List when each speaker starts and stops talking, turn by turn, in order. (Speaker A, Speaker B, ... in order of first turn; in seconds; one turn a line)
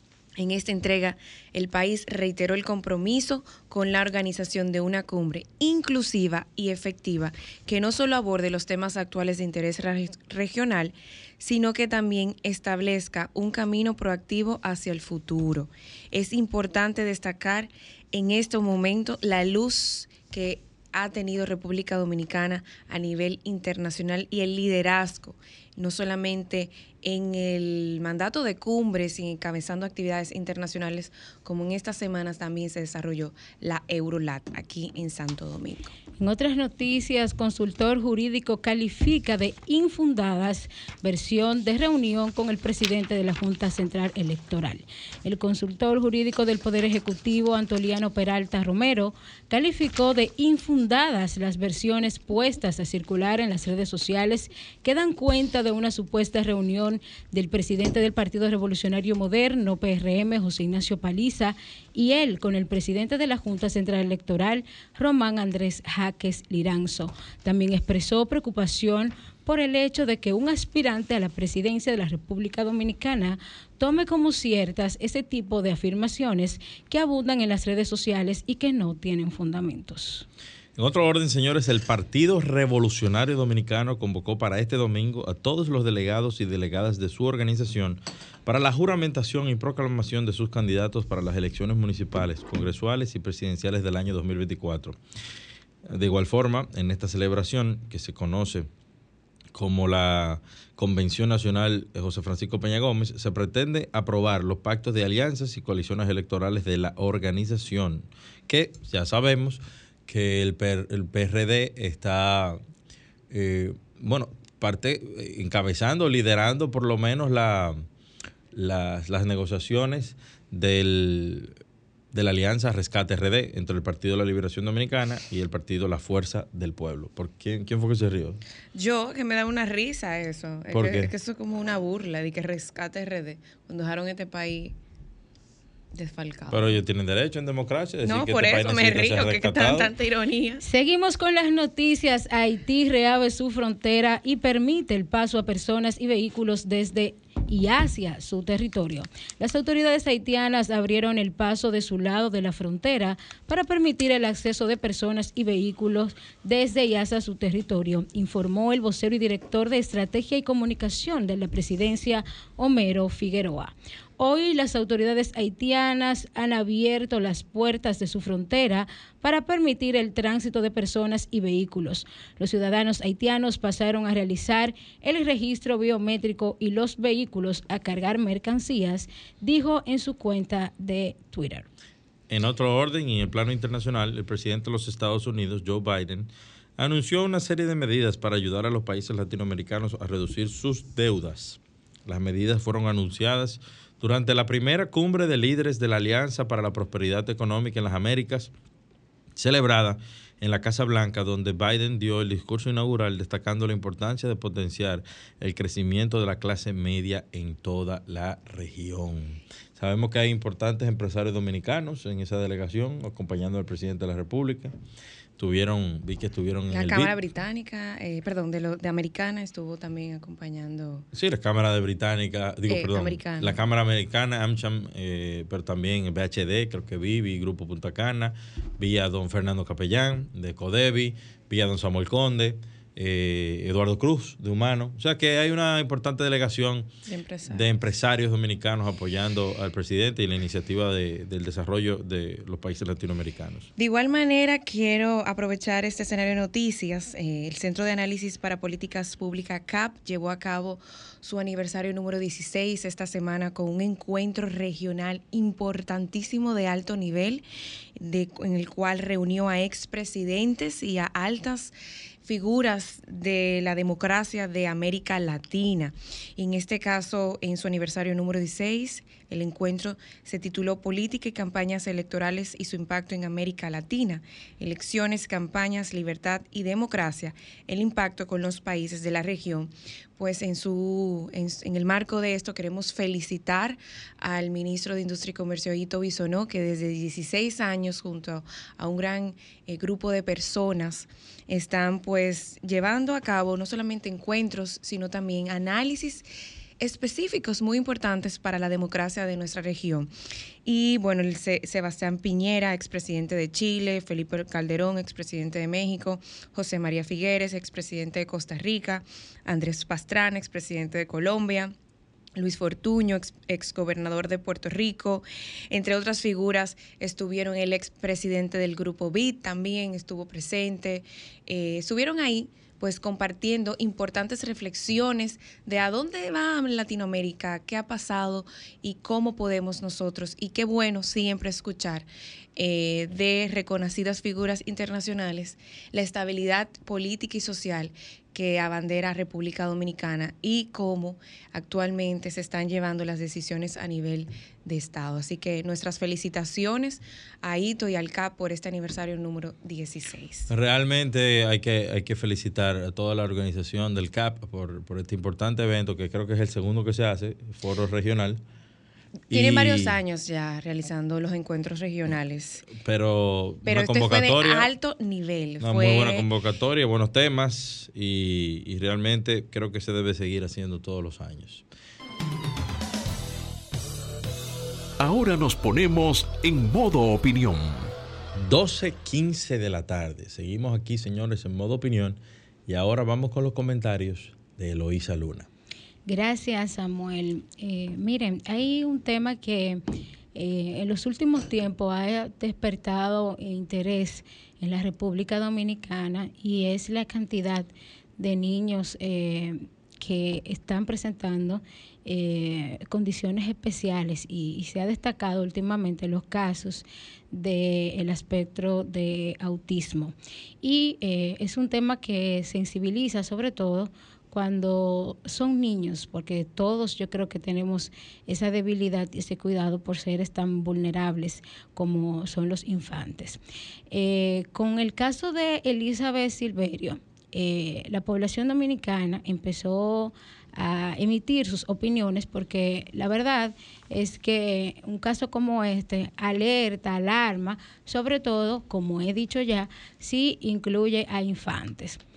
Speaker A: 0.4-35.9
Speaker B: 36.2-80.2
Speaker C: 80.8-95.0
Speaker C: 95.8-98.7
Speaker C: 99.5-112.6
Speaker C: 113.3-117.8
Speaker C: 118.5-121.5
Speaker C: 122.1-128.4
Speaker A: 128.7-134.8
Speaker C: 130.7-131.1
Speaker A: 135.9-136.8
Speaker C: 136.5-139.9
Speaker A: 138.0-140.6
Speaker B: 140.6-181.7
Speaker C: 182.3-198.5
Speaker C: 199.3-214.7
Speaker C: 215.4-217.1
Speaker A: 216.7-221.1
Speaker C: 221.1-236.9
Speaker A: 222.7-223.6
Speaker A: 237.1-237.7
Speaker C: 237.5-243.7
Speaker A: 243.8-257.4
Speaker A: 258.0-261.7
Speaker A: 262.2-296.2
Speaker A: 296.8-300.1
Speaker A: 300.6-311.7
Speaker A: 312.4-350.5
Speaker C: 350.5-358.4
Speaker C: 359.3-360.0
Speaker A: 359.3-362.7
Speaker C: 362.8-364.7
Speaker A: 363.6-366.3
Speaker C: 365.6-371.6
Speaker D: 375.0-377.9
Speaker C: 378.3-385.5
Speaker B: 386.1-389.8
Speaker B: 390.3-442.0